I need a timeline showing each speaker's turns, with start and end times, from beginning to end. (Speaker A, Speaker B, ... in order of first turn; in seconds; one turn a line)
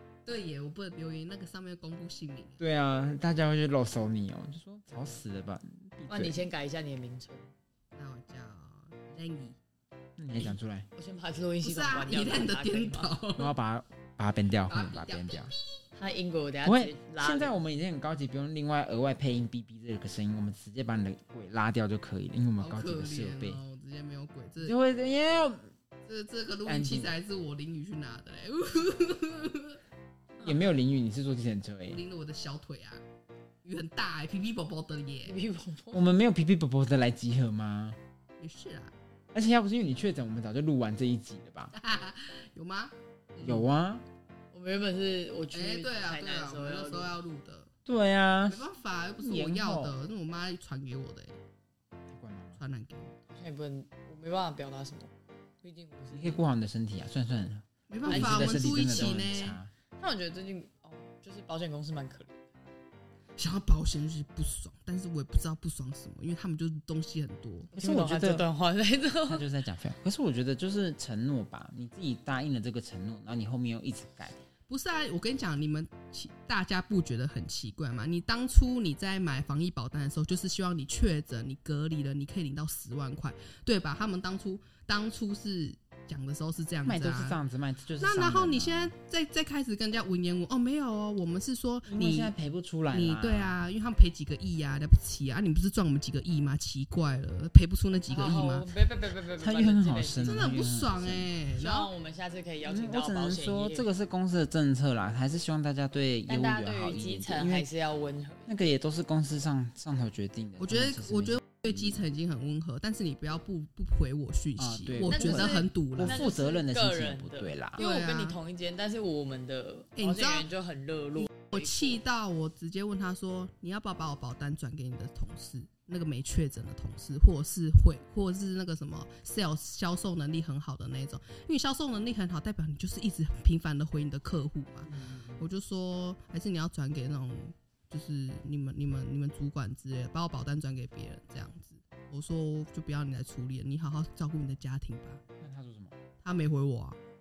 Speaker A: 0.3-2.6
Speaker B: 2.6-6.4
Speaker C: 6.1-7.5
Speaker A: 8.0-9.6
Speaker B: 10.2-10.9
Speaker C: 11.0-13.2
Speaker A: 11.6-13.5
Speaker B: 13.4-15.5
Speaker A: 14.7-15.5
Speaker C: 16.0-17.6
Speaker B: 16.6-23.6
Speaker A: 22.6-24.8
Speaker B: 24.6-25.7
Speaker A: 26.1-29.8
Speaker B: 26.7-27.1
Speaker B: 30.4-32.0
Speaker A: 31.9-33.0
Speaker A: 33.6-35.4
Speaker C: 35.3-36.0
Speaker B: 35.9-38.0
Speaker A: 38.4-38.9
Speaker B: 39.3-41.7
Speaker A: 41.7-43.7
Speaker B: 43.4-44.0
Speaker C: 44.5-47.2
Speaker A: 45.5-47.7
Speaker B: 47.9-48.6
Speaker A: 48.5-51.4
Speaker B: 49.2-50.0
Speaker B: 52.1-52.6
Speaker A: 52.6-53.2
Speaker C: 53.3-55.1
Speaker C: 55.6-56.4
Speaker B: 56.1-59.7
Speaker A: 57.9-59.6
Speaker C: 58.0-59.1
Speaker C: 60.0-62.4
Speaker A: 63.4-67.7
Speaker C: 67.7-69.4
Speaker B: 67.8-68.5
Speaker B: 69.2-74.4
Speaker A: 74.7-87.4
Speaker B: 86.9-88.9
Speaker A: 88.0-92.3
Speaker B: 91.9-93.6
Speaker A: 92.9-98.7
Speaker C: 98.1-100.4
Speaker B: 99.4-101.3
Speaker A: 100.2-101.9
Speaker C: 101.6-103.9
Speaker B: 102.6-107.7
Speaker C: 106.3-108.5
Speaker B: 108.5-112.0
Speaker A: 110.6-116.2
Speaker B: 114.6-117.8
Speaker C: 115.0-122.0
Speaker A: 117.8-118.4
Speaker A: 120.0-120.5
Speaker A: 121.4-145.2
Speaker B: 134.9-135.4
Speaker B: 145.4-146.0
Speaker A: 146.2-147.0